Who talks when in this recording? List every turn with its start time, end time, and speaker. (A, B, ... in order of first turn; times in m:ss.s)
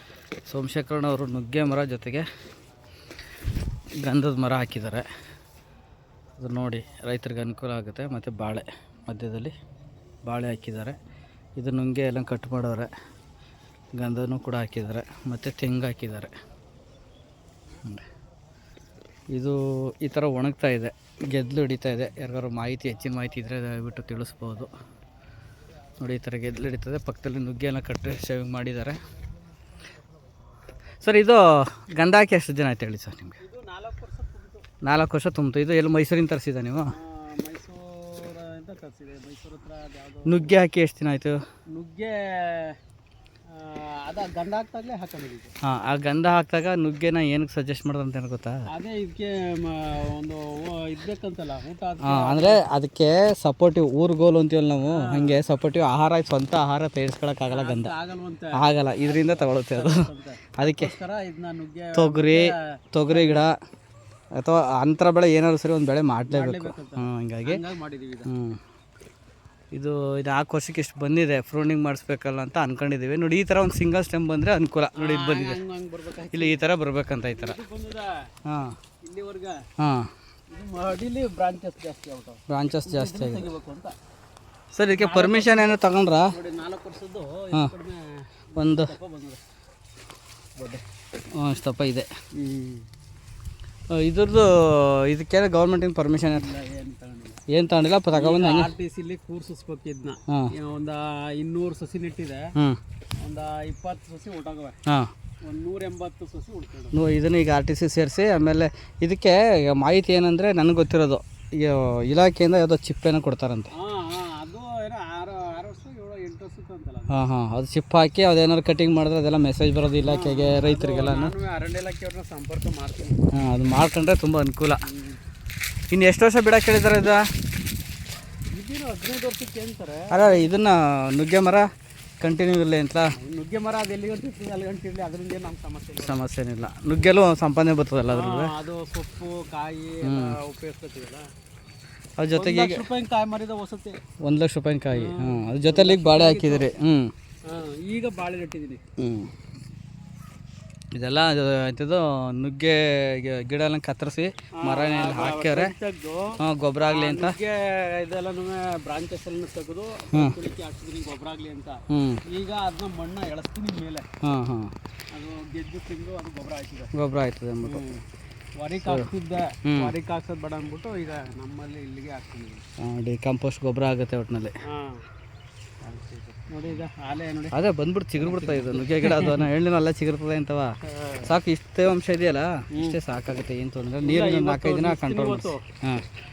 0:00.4-0:02.2 A
0:04.0-0:05.1 A
0:06.4-0:09.5 A
0:10.3-0:11.0 A
0:11.6-0:12.9 A
0:14.0-0:16.3 A
0:19.3-0:24.7 A
0:26.0-0:29.0 A
0:31.0-0:33.4 A
0:33.4-0:34.6 B
0:34.8-0:36.9 A
0:36.9-0:40.5 B
0:40.2-0:41.4 A
0:41.7-0:42.8 B
0:43.5-0:45.5 B
0:45.6-0:48.7 A
0:48.7-0:52.6 B
0:52.0-0:57.9 A
0:54.9-0:55.4 B
0:57.5-1:02.6 B
0:58.5-1:00.0 A
1:00.6-1:00.9 A
1:01.9-1:03.5 A
1:03.1-1:03.5 B
1:04.4-1:07.6 A
1:06.3-1:08.3 B
1:08.2-1:08.6 A
1:09.7-1:15.6 A
1:15.0-1:16.6 B
1:16.3-1:17.6 A
1:17.3-1:18.2 B
1:18.4-1:18.8 A
1:19.0-1:19.6 B
1:19.8-1:20.1 A
1:20.5-1:23.9 B
1:22.5-1:23.5 A
1:24.7-1:26.4 A
1:24.9-1:29.4 B
1:28.6-1:28.9 A
1:30.6-1:30.8 B
1:31.4-1:32.1 A
1:32.3-1:32.9 B
1:33.9-1:36.5 A
1:36.3-1:37.4 B
1:37.5-1:38.7 A
1:38.1-1:42.5 B
1:43.2-1:44.8 B
1:45.4-1:47.0 B
1:46.9-1:53.7 A
1:53.7-1:57.2 B
1:57.1-2:01.3 A
2:00.0-2:03.2 B
2:03.3-2:04.8 A
2:04.8-2:05.2 B
2:05.9-2:07.3 A
2:08.5-2:10.5 B
2:10.1-2:11.7 A
2:12.2-2:13.1 A
2:13.2-2:16.2 B
2:16.0-2:18.5 A
2:18.1-2:21.3 B
2:20.0-2:20.4 A
2:22.2-2:22.8 A
2:22.3-2:24.0 B
2:24.2-2:27.1 A
2:24.9-2:26.7 B
2:27.4-2:28.8 B
2:29.0-2:29.3 A
2:30.9-2:35.7 A
2:34.6-2:44.0 B
2:36.4-2:37.4 A
2:41.9-2:42.2 A
2:44.2-2:44.7 A
2:45.1-2:46.9 B
2:46.9-2:47.8 A
2:47.6-2:48.0 B
2:48.6-2:52.6 B
2:48.8-2:49.1 A
2:49.6-2:49.9 A
2:52.8-2:54.6 A
2:54.7-2:55.0 B
2:55.8-2:57.6 B
2:57.5-3:06.1 A
2:58.2-2:59.4 B
3:00.8-3:01.3 B
3:04.0-3:05.6 B